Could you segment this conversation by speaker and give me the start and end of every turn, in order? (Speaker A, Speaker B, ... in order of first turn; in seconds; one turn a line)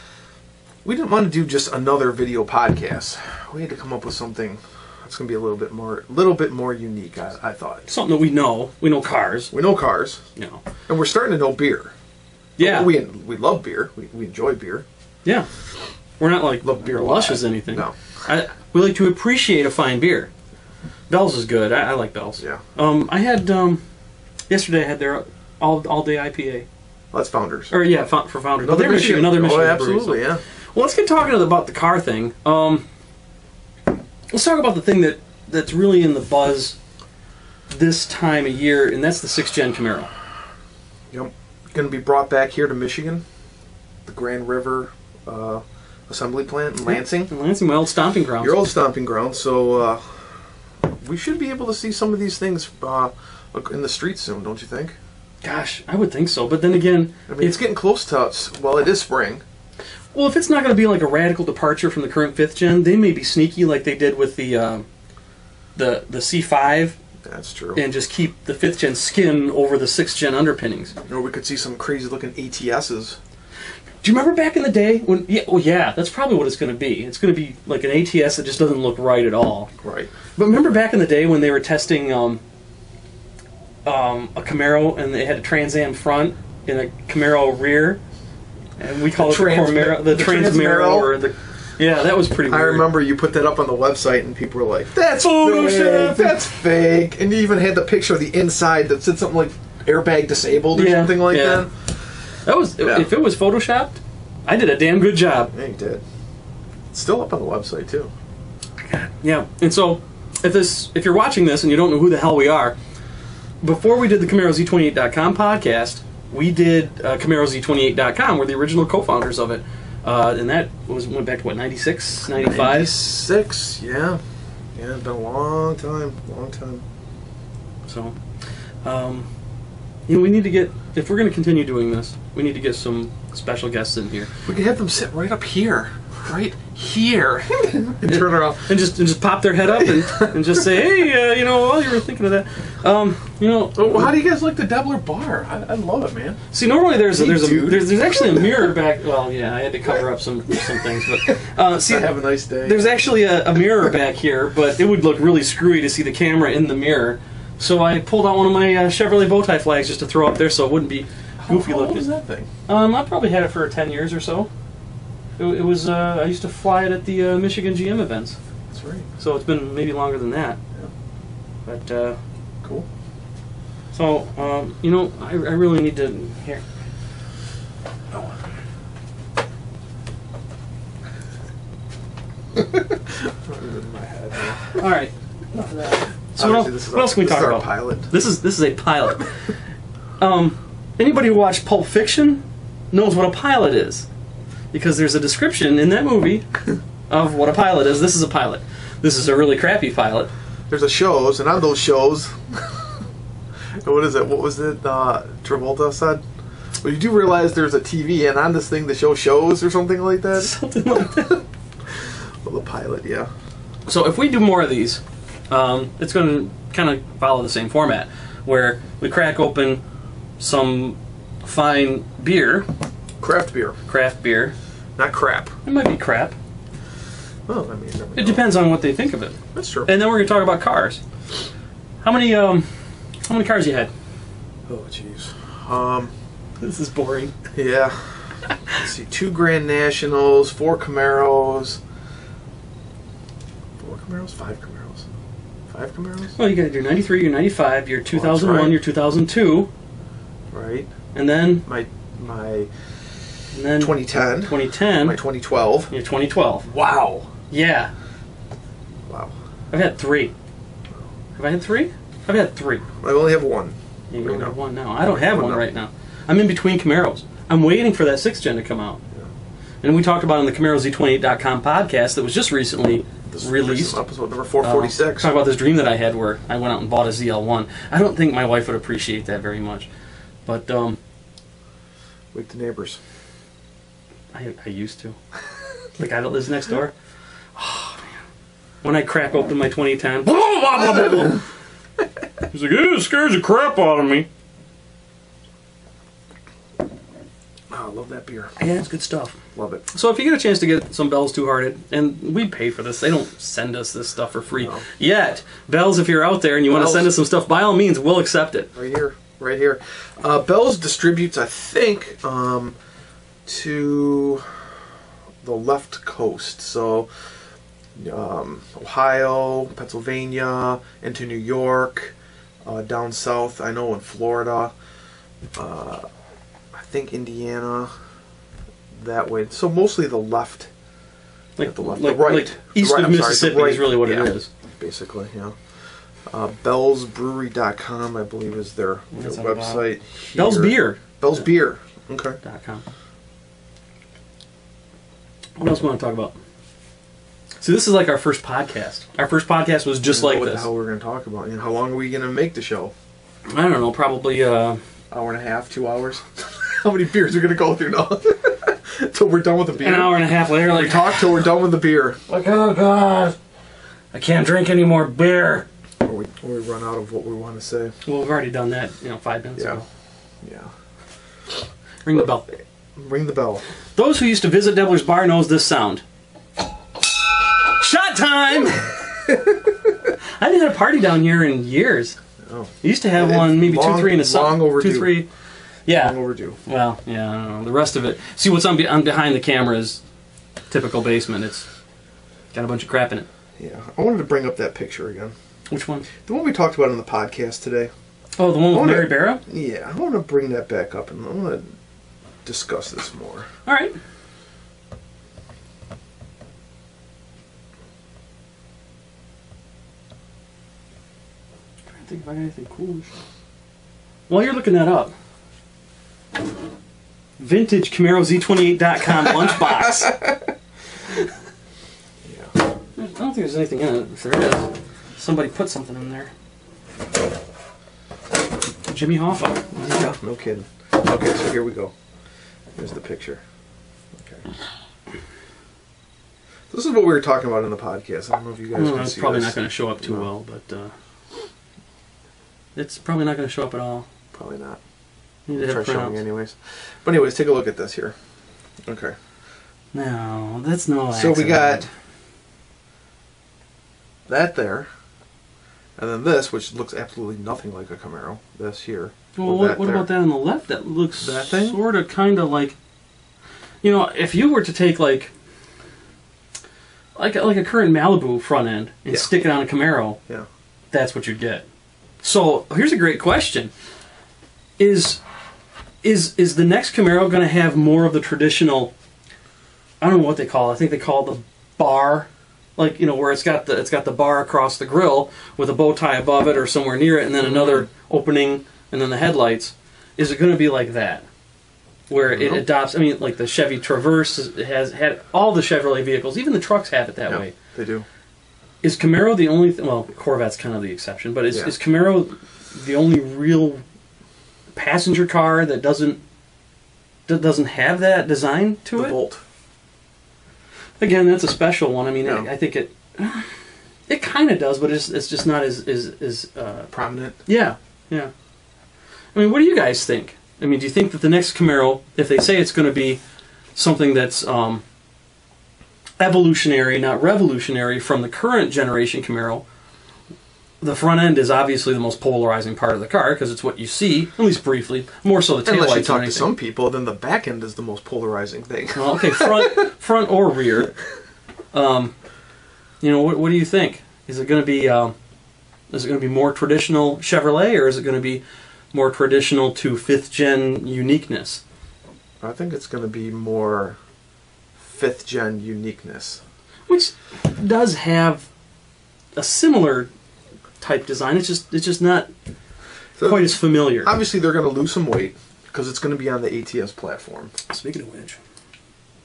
Speaker A: 0.8-7.9
Speaker B: 7.9-9.5
Speaker A: 9.5-10.2
Speaker B: 10.3-10.6
Speaker A: 10.9-11.9
Speaker B: 12.6-12.9
Speaker A: 12.6-14.8
Speaker B: 16.2-20.3
Speaker A: 16.6-17.9
Speaker B: 21.1-23.8
Speaker B: 24.5-26.6
Speaker A: 27.1-27.8
Speaker B: 27.7-32.8
Speaker A: 28.6-30.4
Speaker B: 34.3-36.8
Speaker B: 37.7-40.1
Speaker A: 41.1-43.2
Speaker A: 44.0-47.3
Speaker B: 46.8-48.6
Speaker A: 48.4-50.3
Speaker A: 51.0-55.0
Speaker B: 55.4-57.6
Speaker A: 57.3-59.4
Speaker B: 60.1-64.8
Speaker B: 65.8-67.0
Speaker A: 67.2-67.8
Speaker B: 67.7-70.9
Speaker A: 71.1-73.2
Speaker B: 74.0-79.7
Speaker A: 79.8-80.1
Speaker B: 80.3-82.4
Speaker B: 83.8-88.0
Speaker B: 88.8-92.9
Speaker A: 89.1-91.2
Speaker A: 92.4-101.7
Speaker B: 95.2-96.4
Speaker B: 100.7-101.8
Speaker B: 102.4-105.5
Speaker A: 102.8-103.1
Speaker A: 105.5-106.0
Speaker A: 106.9-108.1
Speaker B: 108.8-112.8
Speaker B: 113.6-122.9
Speaker A: 122.3-124.2
Speaker A: 124.7-126.8
Speaker B: 127.8-128.2
Speaker B: 128.8-129.3
Speaker B: 130.1-134.3
Speaker A: 134.4-138.7
Speaker B: 138.0-144.1
Speaker A: 139.7-140.7
Speaker A: 143.7-146.4
Speaker B: 146.5-162.1
Speaker A: 147.1-148.6
Speaker A: 151.8-153.0
Speaker A: 161.4-162.5
Speaker B: 162.7-164.5
Speaker B: 165.4-168.4
Speaker A: 168.7-169.1
Speaker B: 169.2-170.6
Speaker B: 171.7-172.2
Speaker B: 173.9-176.6
Speaker A: 182.6-184.6
Speaker B: 184.7-189.5
Speaker A: 186.4-188.1
Speaker B: 190.2-194.1
Speaker B: 194.7-196.5
Speaker B: 197.1-200.3
Speaker A: 200.7-202.9
Speaker A: 203.8-206.2
Speaker A: 206.8-213.3
Speaker B: 210.3-211.4
Speaker B: 213.8-219.8
Speaker B: 220.4-222.7
Speaker A: 223.2-223.8
Speaker B: 223.9-224.5
Speaker A: 225.0-225.5
Speaker B: 225.6-226.3
Speaker A: 227.5-228.5
Speaker B: 228.2-231.0
Speaker A: 229.5-229.9
Speaker B: 232.0-232.7
Speaker B: 233.2-233.9
Speaker A: 234.7-236.1
Speaker B: 236.6-237.3
Speaker A: 237.5-241.8
Speaker A: 243.8-245.1
Speaker A: 245.7-246.4
Speaker B: 246.3-249.7
Speaker A: 248.1-248.8
Speaker A: 250.5-250.9
Speaker B: 251.1-251.6
Speaker A: 251.6-252.7
Speaker B: 253.5-255.2
Speaker A: 253.7-255.9
Speaker B: 255.9-256.7
Speaker A: 256.6-257.3
Speaker B: 257.5-257.9
Speaker A: 259.1-259.3
Speaker B: 259.7-260.3
Speaker B: 261.4-262.9
Speaker A: 263.0-265.6
Speaker B: 264.1-269.0
Speaker B: 269.8-274.0
Speaker A: 273.3-275.3
Speaker B: 274.6-279.9
Speaker B: 280.4-281.0
Speaker A: 282.3-283.0
Speaker B: 284.3-285.1
Speaker B: 286.0-286.9
Speaker B: 287.6-288.0
Speaker B: 288.8-291.4
Speaker A: 290.8-291.2
Speaker B: 292.5-294.3
Speaker A: 297.7-298.5
Speaker B: 298.6-299.3
Speaker A: 299.5-299.8
Speaker B: 299.9-308.7
Speaker A: 306.7-307.1
Speaker A: 308.7-312.7
Speaker A: 313.4-314.6
Speaker A: 315.4-317.1
Speaker A: 317.9-324.7
Speaker A: 325.5-326.0
Speaker A: 326.7-327.9
Speaker A: 328.9-330.7
Speaker B: 331.6-334.5
Speaker A: 331.6-335.6
Speaker A: 336.3-342.4
Speaker B: 339.1-341.5
Speaker B: 342.4-342.8
Speaker B: 345.6-346.4
Speaker B: 347.6-350.7
Speaker A: 350.0-352.9
Speaker B: 353.5-354.8
Speaker A: 355.1-362.2
Speaker B: 359.8-361.4
Speaker B: 362.3-363.4
Speaker B: 364.1-365.6
Speaker A: 366.0-367.9
Speaker B: 368.0-369.8
Speaker A: 369.6-369.8
Speaker A: 370.4-370.7
Speaker B: 372.0-372.5
Speaker A: 372.9-373.6
Speaker B: 373.9-376.0
Speaker B: 377.6-379.4
Speaker B: 380.2-382.1
Speaker A: 382.4-385.2
Speaker B: 382.8-385.3
Speaker B: 385.9-390.0
Speaker A: 385.9-386.6
Speaker B: 390.7-391.7
Speaker B: 392.5-393.3
Speaker A: 393.6-395.3
Speaker B: 395.7-396.1
Speaker A: 396.2-397.9
Speaker B: 398.4-399.4
Speaker A: 398.7-401.8
Speaker A: 402.4-403.4
Speaker B: 403.6-404.0
Speaker B: 411.9-413.1
Speaker B: 414.3-415.1
Speaker B: 417.4-420.2
Speaker A: 419.3-420.3
Speaker A: 422.2-422.5
Speaker B: 423.0-426.3
Speaker B: 428.9-429.6
Speaker A: 429.7-431.9
Speaker A: 432.8-433.4
Speaker A: 434.1-434.4
Speaker A: 436.7-440.3
Speaker B: 438.7-440.9
Speaker B: 442.8-444.1
Speaker A: 444.3-444.8
Speaker B: 445.5-446.2
Speaker A: 445.6-448.1
Speaker A: 448.8-449.1
Speaker B: 449.9-451.9
Speaker A: 451.1-451.8
Speaker A: 454.3-454.9
Speaker A: 456.0-460.1
Speaker B: 459.3-462.7
Speaker A: 461.2-461.8
Speaker B: 463.8-465.3
Speaker B: 467.1-470.2
Speaker B: 470.9-471.6
Speaker B: 472.2-473.7
Speaker B: 474.8-475.2
Speaker B: 476.0-478.9
Speaker B: 480.0-491.2
Speaker A: 487.4-487.9
Speaker B: 492.1-497.6
Speaker A: 492.3-492.7
Speaker A: 497.3-498.0
Speaker B: 498.8-503.8
Speaker B: 504.7-506.2
Speaker B: 507.3-509.2
Speaker A: 508.9-509.4
Speaker B: 511.0-516.9
Speaker A: 512.2-512.5
Speaker A: 516.9-517.4
Speaker B: 517.5-518.3
Speaker B: 519.3-523.2
Speaker B: 523.7-524.8
Speaker B: 526.2-529.6
Speaker B: 530.8-536.5
Speaker A: 535.6-539.9
Speaker B: 539.0-540.9
Speaker B: 541.7-542.1
Speaker B: 543.0-545.1
Speaker B: 545.9-548.4
Speaker B: 548.9-551.6
Speaker A: 552.4-554.0
Speaker A: 554.8-556.4
Speaker B: 556.9-558.5
Speaker B: 559.3-560.1
Speaker B: 560.8-562.3
Speaker A: 563.2-567.5
Speaker B: 563.2-564.1
Speaker B: 567.7-568.4